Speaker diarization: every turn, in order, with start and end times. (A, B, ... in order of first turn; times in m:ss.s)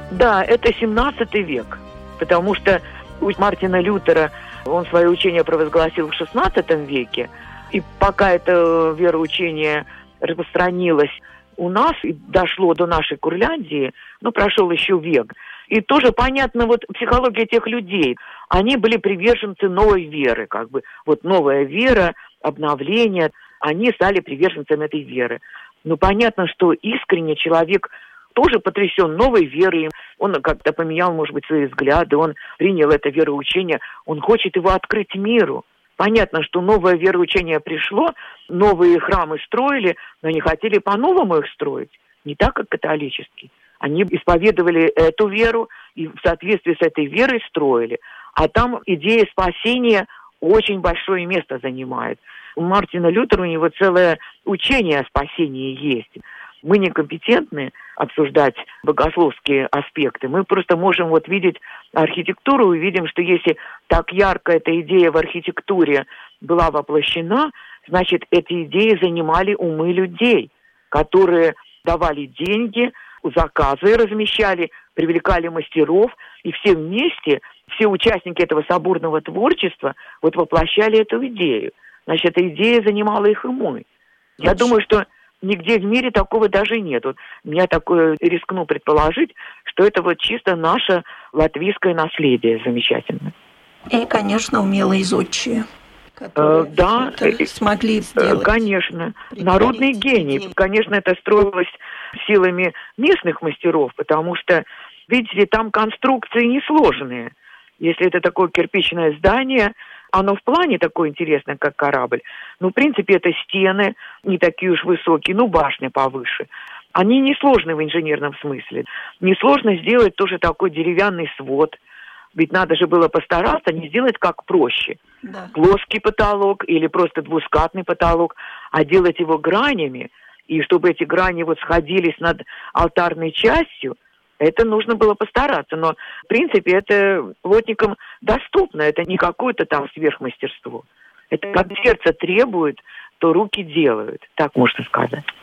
0:00.1-1:23.8 A
1:24.4-1:24.7 B
1:24.4-1:33.3 A
1:33.9-1:35.6 B
1:36.2-1:38.6 B
1:36.4-1:37.4 A
1:38.2-2:01.8 A
1:39.3-1:40.5 B
2:02.3-2:05.0 A
2:05.2-2:05.6 B
2:05.5-2:25.2 A